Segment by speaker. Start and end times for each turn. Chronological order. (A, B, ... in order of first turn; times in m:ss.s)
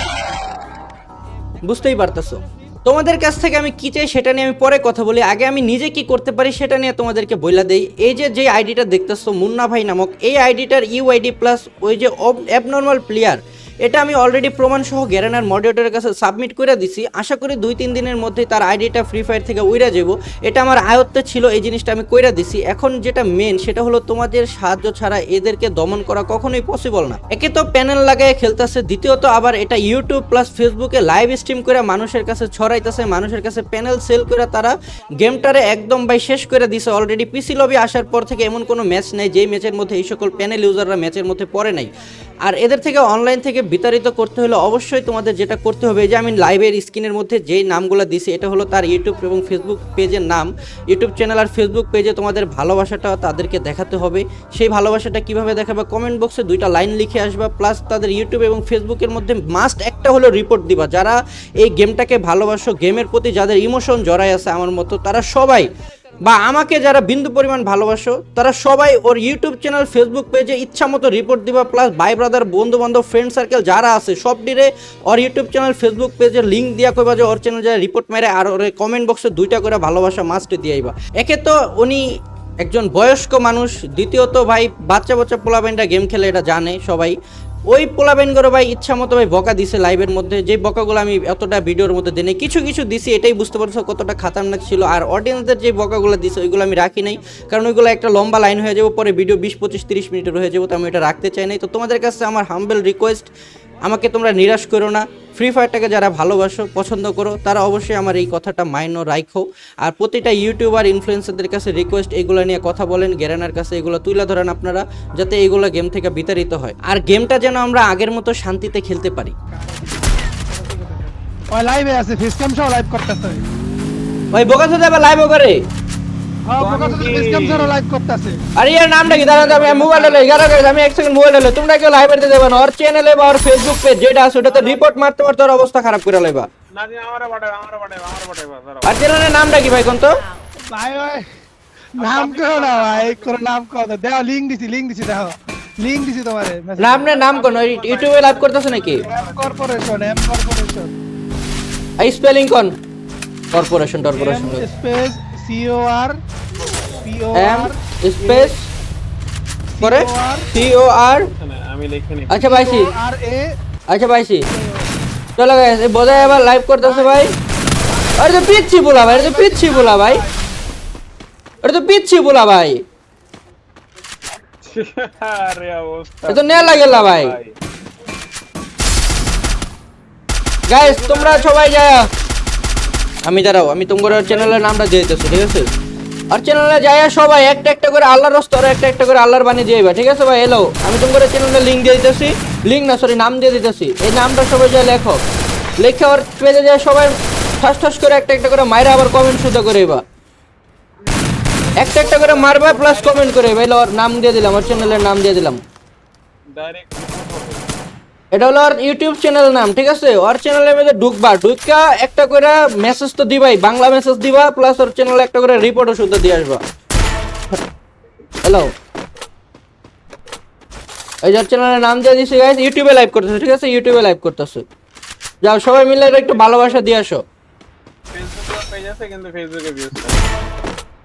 0:01.6-0:41.9 A
0:42.4-1:05.7 A
1:06.2-1:22.0 A
1:22.6-1:27.2 A
1:27.7-1:43.3 A
1:43.8-1:59.3 A
1:59.5-2:03.4 B
2:04.3-2:05.6 A
2:06.4-2:08.4 B
2:06.6-2:07.8 C
2:08.6-2:16.5 A
2:09.0-2:10.4 B
2:14.5-2:14.9 C
2:16.7-2:19.0 C
2:18.9-2:20.2 A
2:20.6-2:21.2 B
2:22.0-2:27.1 B
2:22.0-2:23.4 C
2:26.8-2:29.0 A
2:27.1-2:29.7 C
2:29.0-2:31.0 B
2:32.0-2:32.8 A
2:33.5-2:34.7 A
2:34.1-2:36.2 B
2:36.9-2:38.5 B
2:37.3-2:38.7 A
2:39.7-2:40.5 B
2:39.8-2:41.3 A
2:41.4-2:42.4 C
2:42.3-2:42.9 A
2:42.4-2:43.6 B
2:43.9-2:44.5 A
2:44.5-2:44.9 B
2:45.4-2:47.3 A
2:46.1-2:47.2 B
2:47.9-2:50.6 B
2:48.2-2:50.2 A
2:51.6-2:52.8 A
2:54.4-2:57.5 C
2:56.3-2:57.3 A
3:00.7-3:02.1 A
3:00.8-3:01.7 C
3:03.2-3:05.7 A
3:04.1-3:04.6 C
3:06.3-3:15.2 A
3:15.8-3:20.0 A
3:21.4-3:23.5 C
3:21.8-3:25.6 A
3:26.5-3:27.7 C
3:28.3-3:36.6 A
3:38.4-3:38.7 A
3:41.2-3:44.6 A
3:45.4-3:47.2 A
3:46.0-3:46.9 C
3:48.1-3:50.3 C